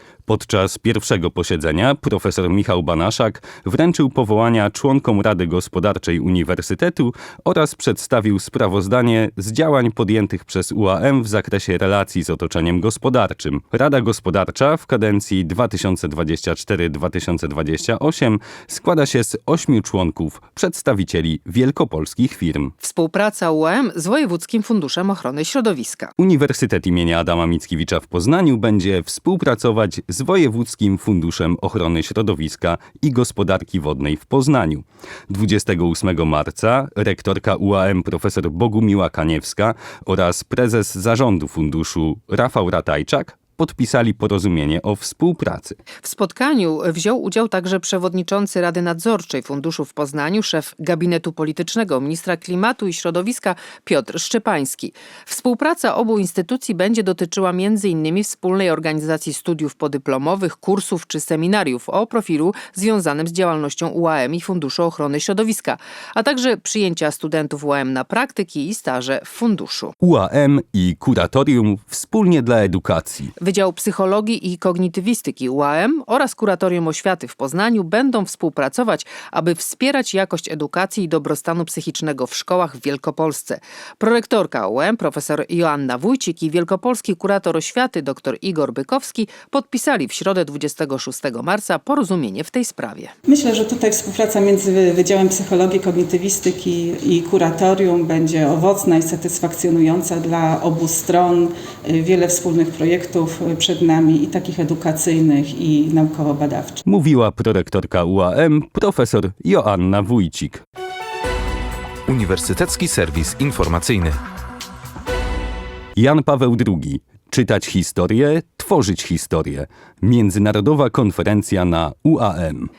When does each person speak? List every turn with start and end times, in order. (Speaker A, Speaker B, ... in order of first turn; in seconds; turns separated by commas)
Speaker A: 0.3-22.7, Speaker B: 22.8-26.1, Speaker A: 26.2-45.8, Speaker B: 46.0-69.9, Speaker A: 70.0-73.3, Speaker B: 73.4-93.1, Speaker C: 93.3-106.8, Speaker A: 106.8-110.6, Speaker D: 112.1-114.2, Speaker A: 116.0-122.7